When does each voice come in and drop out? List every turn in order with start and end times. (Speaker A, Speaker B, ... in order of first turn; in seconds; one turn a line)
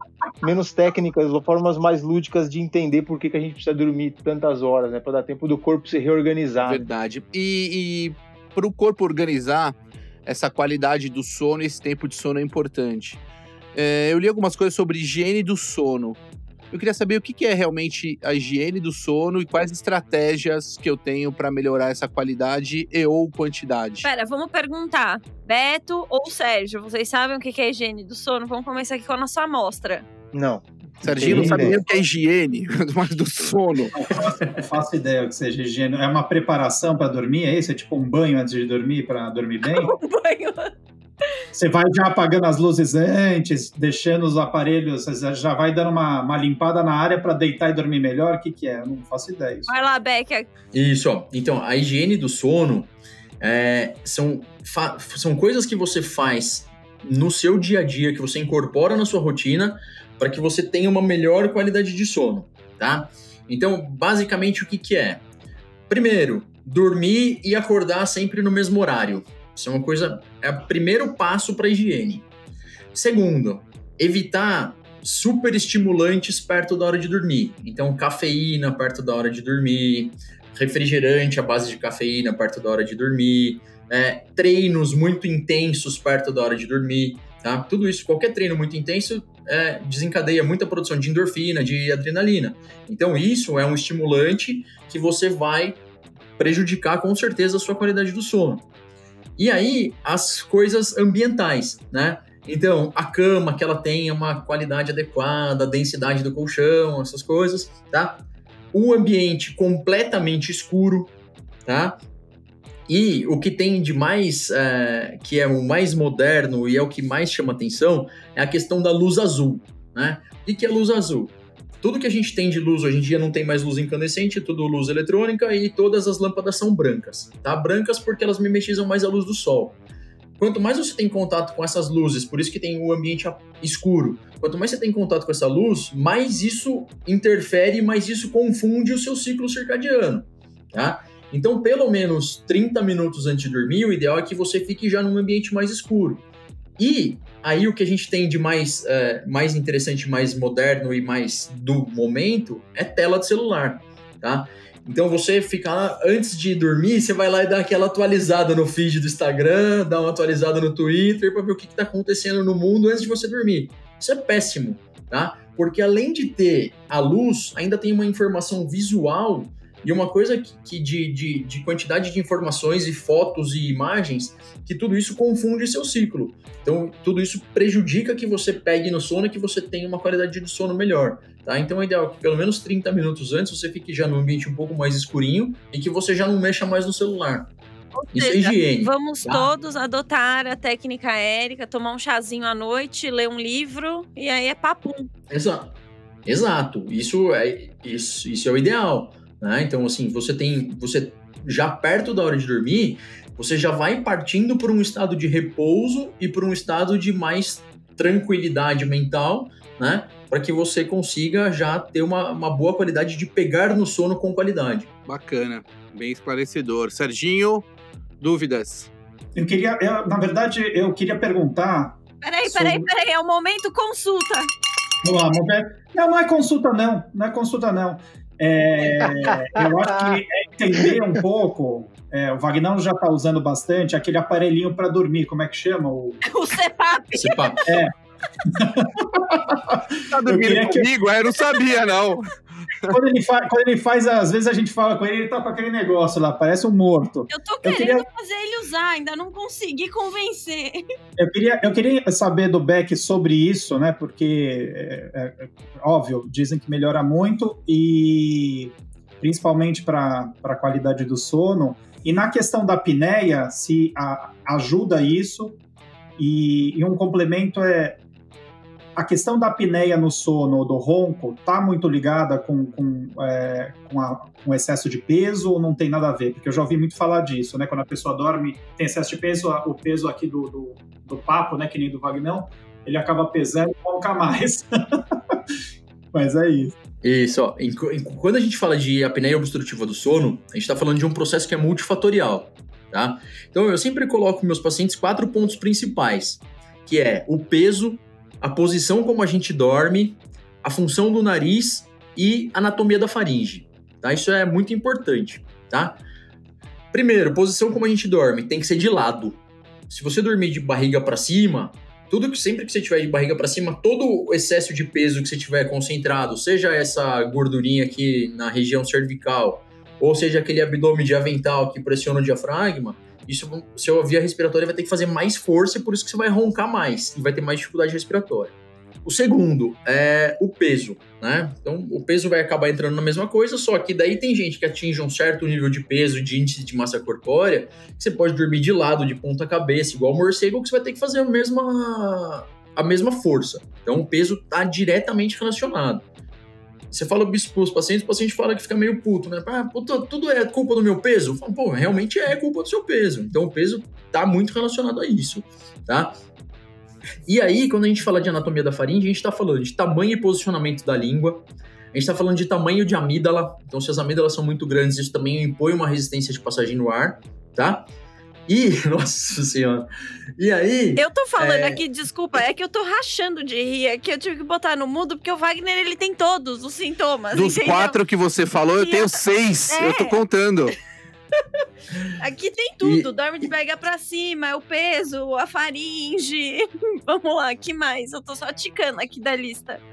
Speaker A: 0.4-6.8
Speaker B: 6.6-13.2
Speaker B: 13.7-16.2
Speaker B: 16.7-24.1
Speaker C: 24.0-30.0
Speaker A: 30.3-31.8
Speaker B: 31.0-34.1
Speaker D: 31.2-31.8
Speaker D: 33.9-40.0
Speaker C: 39.6-40.7
Speaker D: 41.5-49.7
Speaker C: 49.7-50.5
Speaker E: 50.7-65.2
Speaker E: 65.9-72.3
Speaker E: 72.9-95.8
Speaker E: 96.4-98.6
Speaker E: 99.4-111.1
Speaker E: 111.7-112.0
Speaker E: 112.9-129.8
Speaker E: 130.4-146.2
Speaker E: 146.8-187.5
Speaker C: 187.9-195.1
Speaker E: 188.1-189.5
Speaker E: 195.3-195.7
Speaker E: 196.2-214.9
Speaker B: 215.1-217.7
Speaker B: 218.2-218.9
Speaker D: 219.3-222.9
Speaker C: 222.2-224.5
Speaker D: 225.0-236.2
Speaker C: 236.2-237.7
Speaker E: 237.1-237.6
Speaker D: 237.6-240.9
Speaker B: 240.1-242.9
Speaker D: 242.8-248.1
Speaker C: 247.3-250.8
Speaker D: 251.2-265.6
Speaker D: 266.2-268.0
Speaker D: 268.9-285.4
Speaker D: 286.1-286.7
Speaker E: 287.0-306.0
Speaker E: 306.9-346.0
Speaker E: 346.9-356.2
Speaker E: 357.2-367.9
Speaker E: 368.5-369.9
Speaker E: 370.4-371.8
Speaker C: 370.9-378.0
Speaker B: 377.3-380.8
Speaker C: 378.8-380.2
Speaker C: 382.2-389.8
Speaker E: 382.8-383.1